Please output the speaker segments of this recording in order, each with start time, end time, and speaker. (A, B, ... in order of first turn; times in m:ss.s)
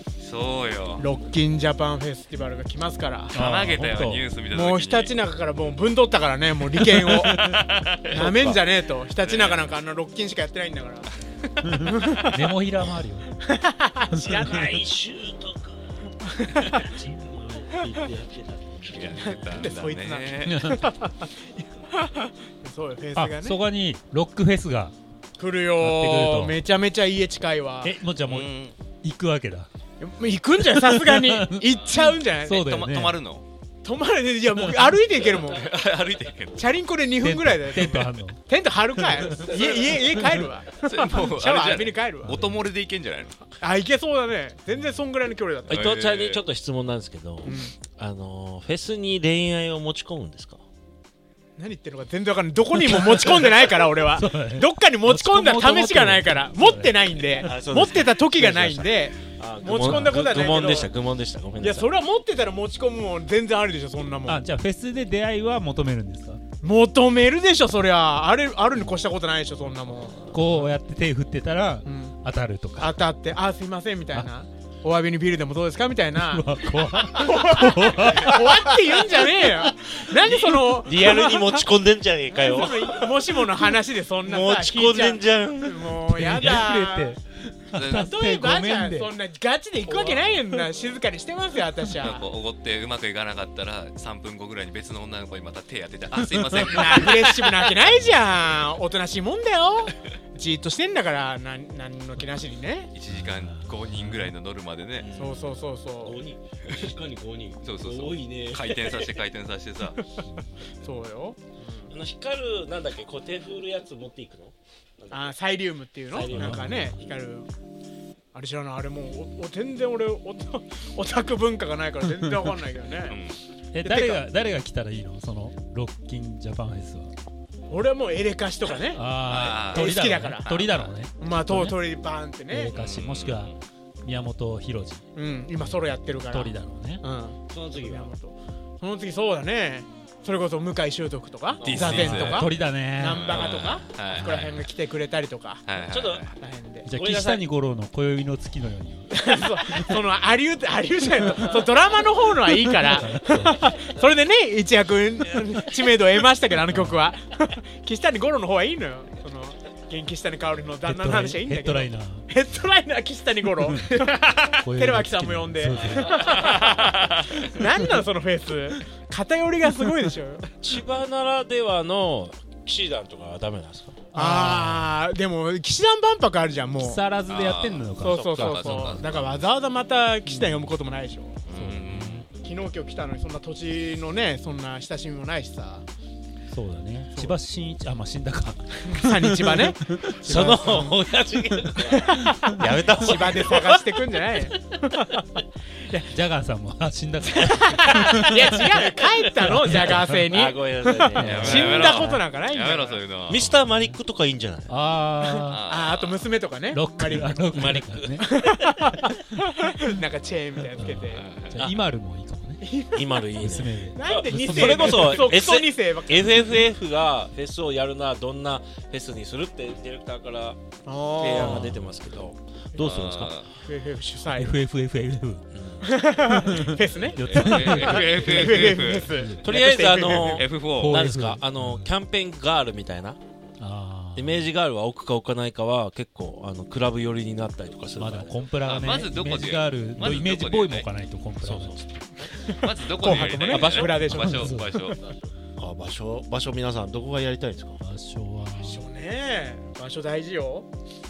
0:00.2-0:01.0 A
0:01.0-0:03.4 B
0:03.3-0:05.2 A
0:03.3-0:04.3 C
0:04.5-0:07.4 B
0:06.9-0:07.6 C
0:07.2-0:08.2 A
0:08.1-0:08.6 D
0:08.1-0:11.1 B
0:09.2-0:09.7 A
0:11.6-0:12.5 B
0:11.6-0:13.3 C
0:13.4-0:14.8 B
0:14.1-0:14.5 C
0:14.4-0:15.8 D
0:16.2-0:16.9 B
0:16.7-0:19.4 D
0:18.9-0:20.7 A
0:19.1-0:23.6 B
0:20.4-0:20.8 C
0:23.1-0:24.9 C
0:25.4-0:28.0 B
0:25.8-0:26.6 C
0:27.8-0:29.7 C
0:28.2-0:28.8 A
0:30.0-0:32.7 B
0:30.6-0:33.2 C
0:32.6-0:33.4 A
0:33.8-0:35.7 B
0:34.5-0:35.0 C
0:35.2-0:36.7 A
0:36.5-0:42.4 B
0:37.2-0:38.4 C
0:39.1-0:39.6 C
0:40.7-0:43.4 A
0:42.2-0:42.6 C
0:43.6-0:45.9 B
0:45.7-0:50.6 D
0:45.7-0:46.4 A
0:47.4-0:47.8 B
0:51.6-1:00.9 B
0:52.8-0:53.6 C
0:54.1-0:57.0 C
0:57.4-1:01.9 D
0:59.8-1:00.3 C
1:01.6-1:04.4 B
1:04.2-1:06.4 C
1:06.6-1:10.7 B
1:10.3-1:13.0 C
1:11.8-1:12.2 B
1:12.8-1:21.7 B
1:16.1-1:18.8 C
1:20.2-1:23.1 D
1:22.3-1:27.2 B
1:24.2-1:26.0 D
1:26.0-1:29.1 C
1:27.7-1:28.1 A
1:27.9-1:32.3 B
1:29.9-1:30.2 D
1:32.0-1:37.4 A
1:36.3-1:37.1 C
1:36.6-1:42.9 B
1:37.8-1:38.2 C
1:42.9-1:45.1 A
1:43.1-1:44.3 C
1:45.0-1:49.2 D
1:45.1-1:46.2 B
1:47.6-1:50.0 A
1:50.0-1:50.2 B
1:50.8-1:51.9 B
1:51.9-1:55.4 D
1:55.1-1:57.5 B
1:56.1-1:57.1 D
1:56.2-1:56.9 C
1:58.3-2:03.2 B
2:02.2-2:02.5 C
2:03.1-2:03.4 A
2:03.7-2:07.1 C
2:03.8-2:04.2 B
2:07.7-2:09.0 B
2:08.9-2:11.8 C
2:09.3-2:09.9 A
2:09.6-2:12.7 B
2:10.6-2:10.9 A
2:12.5-2:15.0 C
2:12.7-2:13.6 A
2:15.1-2:25.6 B
2:15.6-2:17.0 C
2:17.5-2:18.1 D
2:21.5-2:22.3 D
2:21.6-2:22.5 A
2:21.8-2:23.3 C
2:23.1-2:24.6 A
2:23.3-2:23.8 D
2:24.1-2:24.4 C
2:25.6-2:26.3 A
2:25.8-2:26.3 D
2:26.3-2:26.9 B
2:26.8-2:30.0 C
2:26.9-2:27.5 D
2:29.1-2:50.5 B
2:32.9-2:33.5 C
2:36.7-2:37.1 C
2:40.8-2:42.3 C
2:43.6-2:46.2 C
2:45.8-2:46.4 D
2:46.2-2:47.4 A
2:47.5-2:48.0 C
2:50.6-2:54.0 D
2:54.1-2:55.0 C
2:54.1-2:57.0 B
2:56.8-2:58.8 C
2:57.3-2:59.2 A
2:58.0-3:01.4 B
2:58.1-2:58.6 D
3:00.2-3:00.7 C
3:01.5-3:02.3 A
3:01.5-3:02.3 C
3:02.3-3:05.8 B
3:06.5-3:10.9 C
3:08.8-3:11.0 B
3:10.2-3:13.9 D
3:11.6-3:12.9 C
3:11.8-3:16.0 B
3:14.8-3:15.1 D
3:15.9-3:18.7 C
3:17.3-3:23.0 B
3:19.4-3:20.3 C
3:19.6-3:22.2 D
3:21.1-3:21.8 C
3:21.2-3:23.5 A
3:23.3-3:24.7 D
3:23.3-3:24.0 C
3:24.7-3:25.6 C
3:25.5-3:26.3 A
3:25.5-3:31.2 B
3:26.7-3:28.4 C
3:27.5-3:28.6 D
3:30.8-3:32.6 C
3:31.1-3:31.7 A
3:32.6-3:33.2 B
3:32.9-3:40.6 D
3:33.3-3:35.4 C
3:33.9-3:36.6 B
3:40.8-3:41.7 B
3:41.2-3:43.3 D
3:41.3-3:41.8 C
3:42.8-3:43.5 A
3:43.6-3:44.6 B
3:44.3-3:45.4 C
3:45.5-3:45.9 D
3:45.8-3:50.5 B
3:46.4-3:49.5 C
3:47.2-3:49.1 A
3:49.4-3:53.2 D
3:50.3-3:51.0 A
3:50.7-3:51.9 C
3:53.6-3:54.5 C
3:54.2-3:58.4 D
3:58.0-4:01.8 C
3:58.6-4:00.9 A
4:01.4-4:02.0 D
4:02.4-4:05.0 B
4:02.5-4:05.1 A
4:03.5-4:03.8 D
4:04.0-4:04.8 C
4:05.6-4:07.8 D
4:07.8-4:08.8 C
4:08.6-4:10.7 B